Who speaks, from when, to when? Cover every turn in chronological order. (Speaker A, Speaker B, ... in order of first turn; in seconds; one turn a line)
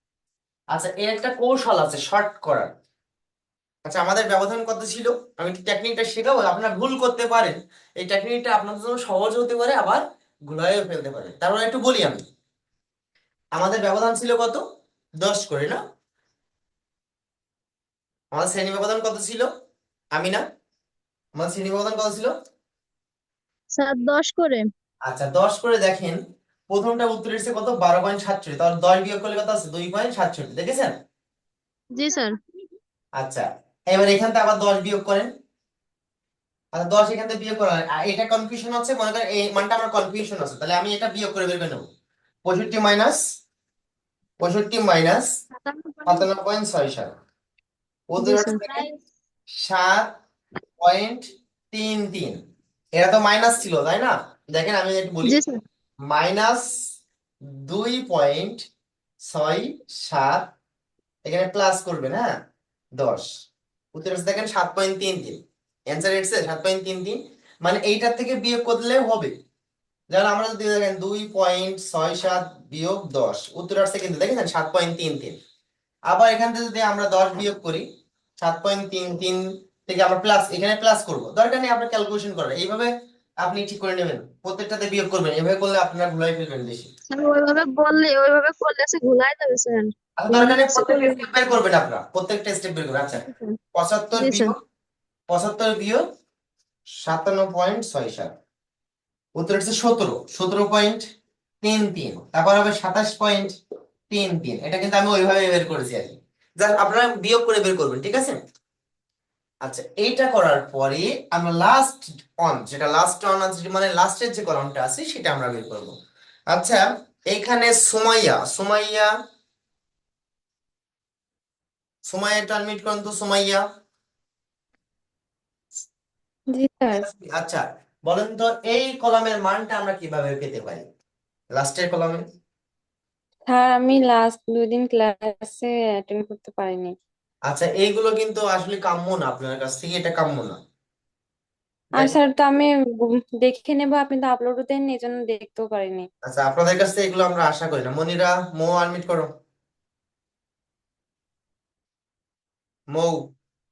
Speaker A: 0.7-2.7
Speaker A: 3.9-12.2
Speaker A: 13.6-14.6
Speaker A: 15.2-15.8
Speaker A: 18.3-19.5
Speaker A: 20.1-20.4
Speaker A: 21.4-22.3
Speaker B: 23.8-24.7
Speaker A: 25.1-26.2
Speaker A: 26.7-30.9
Speaker B: 32.0-32.3
Speaker A: 33.2-35.3
Speaker A: 36.8-41.9
Speaker A: 42.5-43.2
Speaker A: 44.4-45.3
Speaker B: 45.6-46.3
Speaker A: 46.1-47.1
Speaker A: 48.1-48.9
Speaker B: 48.2-49.0
Speaker A: 49.6-50.1
Speaker A: 50.8-52.4
Speaker A: 53.0-55.4
Speaker B: 55.2-55.6
Speaker A: 56.1-56.7
Speaker A: 57.6-58.6
Speaker A: 59.3-60.5
Speaker A: 61.3-62.3
Speaker A: 63.0-63.3
Speaker A: 64.0-69.3
Speaker A: 70.1-75.4
Speaker A: 76.1-77.8
Speaker A: 78.4-82.9
Speaker A: 83.4-86.9
Speaker B: 87.1-91.3
Speaker A: 90.2-94.6
Speaker B: 93.3-93.6
Speaker B: 94.2-94.5
Speaker A: 95.3-96.0
Speaker A: 97.0-98.3
Speaker A: 99.4-101.0
Speaker A: 101.6-103.5
Speaker A: 104.1-108.4
Speaker A: 109.7-116.0
Speaker A: 116.5-119.1
Speaker A: 122.1-123.6
Speaker C: 126.5-127.1
Speaker A: 126.9-130.9
Speaker A: 131.5-132.2
Speaker C: 133.5-136.9
Speaker A: 137.5-140.6
Speaker C: 142.0-146.1
Speaker A: 146.3-149.3
Speaker A: 152.9-153.3